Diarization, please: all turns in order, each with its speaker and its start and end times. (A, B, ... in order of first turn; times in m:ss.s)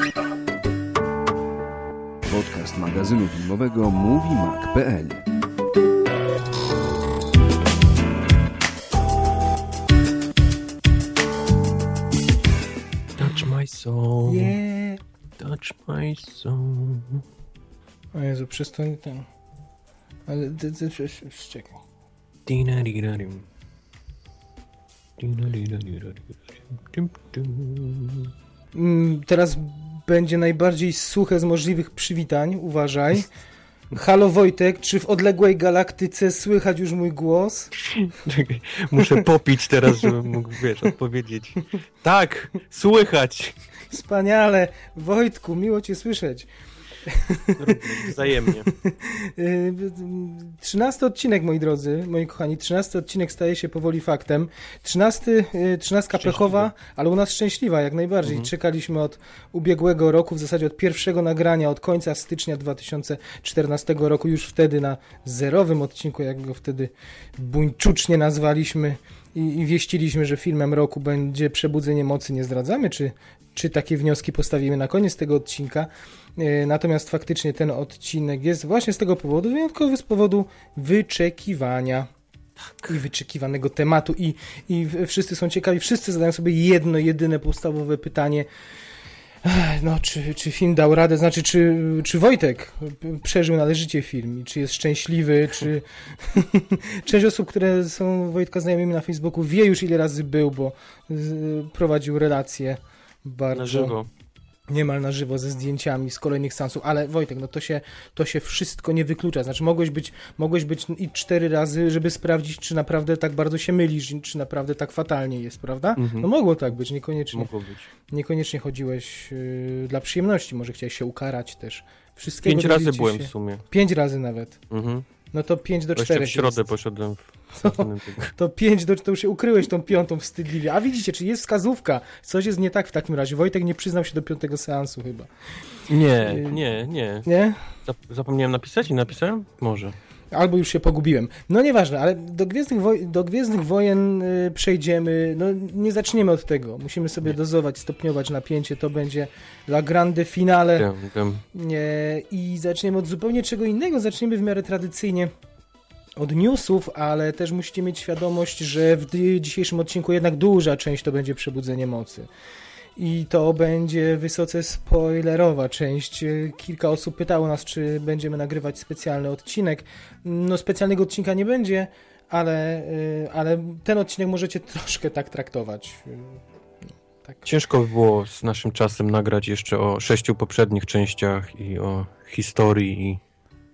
0:02.2-0:05.2 A
0:13.2-0:14.6 B
0:14.2-0:15.0 C
0:15.4-0:17.2 B
0:18.1-0:19.3 C
0:20.3-0:21.8 C
0:22.4-0:23.4 B
0:25.2-0:28.3 B
0:28.7-0:33.3 C
0:33.9-0:37.7 C
0:37.9-0:43.6 B
0:43.9-0:46.5 C
0:47.1-0:48.2 C
0:47.6-0:48.7 B
0:48.7-1:22.1 C
0:56.1-0:56.7 B
0:58.2-0:58.5 B
1:22.8-1:28.5 C
1:29.4-1:43.9 C
1:43.5-1:44.1 B
1:44.7-1:57.5 C
1:56.0-1:56.3 B
1:57.3-1:57.9 B
1:58.1-2:04.6 C
2:02.4-2:03.6 B
2:04.7-2:05.0 B
2:05.3-2:06.7 C
2:06.0-2:08.3 B
2:07.6-2:15.3 C
2:15.9-2:17.3 B
2:16.2-2:16.6 C
2:17.2-2:17.7 C
2:17.8-2:19.9 B
2:20.3-2:30.9 C
2:30.8-2:31.4 B
2:31.5-2:35.3 C
2:36.2-2:42.3 C
2:43.0-2:56.4 C
2:57.4-3:03.2 B